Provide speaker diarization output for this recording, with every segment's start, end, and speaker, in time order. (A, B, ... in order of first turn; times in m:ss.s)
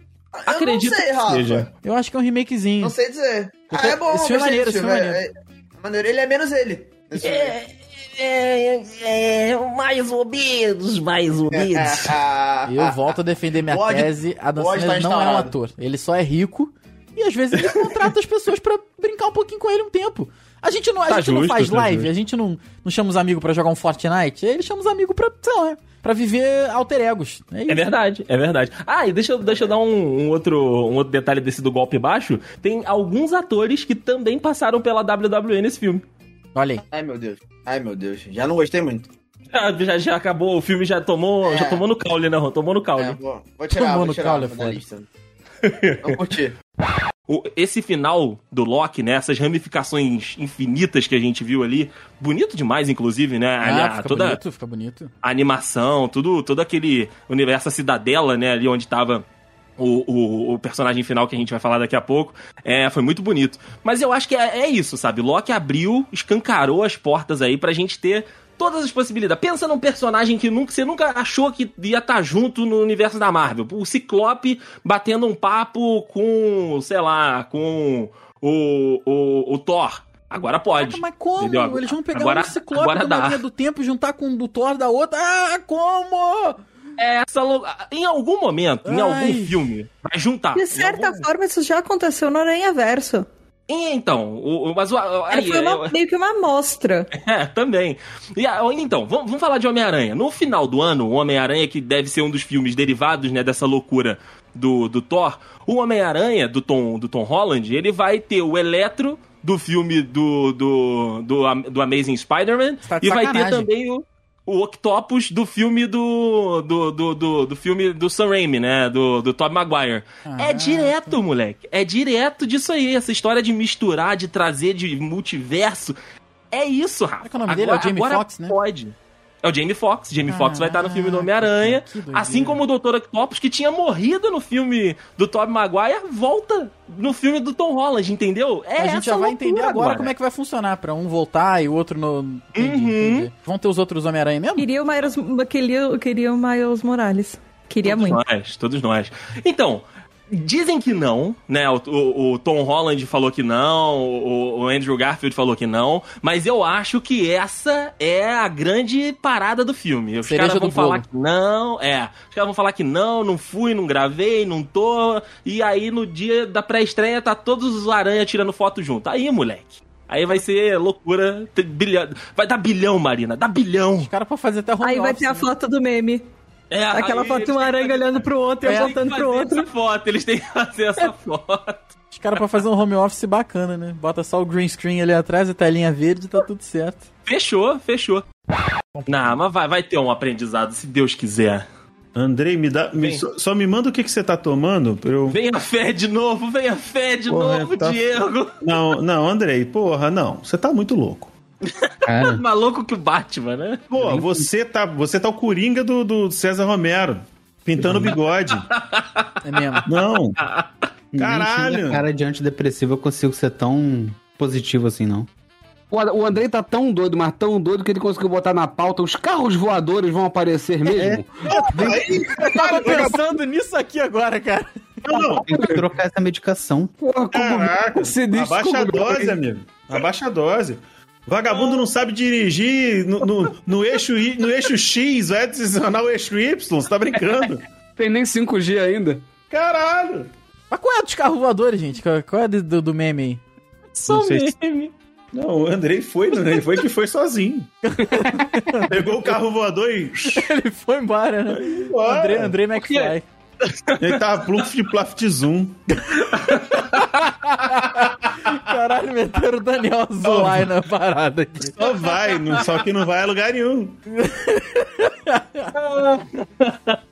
0:00.3-0:01.7 A
0:00.5-0:01.7 B
0:01.8-0:02.9 C
0:02.8-0:07.5 A
0:03.7-0:05.2 C
0:07.2-0:12.2 B
0:11.5-0:13.1 A
0:12.6-0:27.9 C
0:13.7-0:15.5 A
0:21.1-0:22.1 B
0:27.7-0:36.0 B
0:36.5-0:36.8 C
0:36.9-0:39.1 A
0:39.5-0:43.2 B
0:41.4-0:41.8 A
0:43.0-0:45.1 A
0:43.7-0:44.8 C
0:45.6-0:46.2 B
0:46.0-0:46.6 A
0:47.3-0:54.4 B
0:53.6-0:55.1 C
0:55.2-0:59.2 B
0:59.8-1:23.4 B
1:20.8-1:26.6 C
1:27.0-1:31.3 B
1:28.8-1:29.6 C
1:30.6-1:33.3 D
1:33.7-1:35.9 B
1:35.3-1:37.1 D
1:37.1-2:06.0 B
1:52.8-1:53.7 C
2:00.2-2:01.2 C
2:06.5-2:20.1 B
2:07.2-2:08.6 C
2:10.3-2:12.6 C
2:18.8-2:24.6 C
2:22.6-2:23.3 B
2:24.6-2:28.2 D
2:27.8-2:54.1 B
2:40.2-2:41.0 C
2:54.0-2:55.5 C
2:54.8-2:56.3 D
2:56.7-3:01.9 B
2:56.9-2:59.7 D
2:58.6-2:59.0 C
3:02.1-3:07.0 C
3:07.2-3:08.2 B
3:09.0-3:11.6 B
3:12.1-3:15.4 E
3:13.0-3:13.2 B
3:15.3-3:18.7 B
3:17.3-3:18.0 E
3:18.6-3:21.3 E
3:21.7-3:23.9 B
3:22.0-3:22.4 F
3:23.9-3:28.7 E
3:27.8-3:28.1 F
3:28.7-3:29.8 B
3:29.4-3:29.9 C
3:29.8-3:30.4 E
3:30.4-3:30.7 B
3:31.1-3:35.3 F
3:31.2-3:32.0 E
3:35.9-3:41.5 G
3:40.9-3:42.2 F
3:41.5-3:43.2 E
3:42.3-3:45.2 C
3:45.0-3:45.5 E
3:45.4-3:46.9 F
3:45.5-3:45.8 G
3:47.0-3:49.4 G
3:47.3-3:57.6 E
3:58.0-3:59.3 G
3:59.5-4:00.3 E
4:00.7-4:03.4 C
4:03.9-4:04.9 B
4:04.1-4:04.6 E
4:05.3-4:07.7 E
4:07.9-4:09.0 C
4:08.8-4:10.5 E
4:10.2-4:13.2 C
4:11.5-4:12.6 E
4:12.8-4:14.7 B
4:14.0-4:15.8 E
4:16.1-4:21.8 C
4:16.4-4:16.8 B
4:20.2-4:20.7 E
4:21.8-4:24.0 E
4:21.8-4:22.6 B
4:24.1-4:25.8 C
4:25.7-4:27.0 B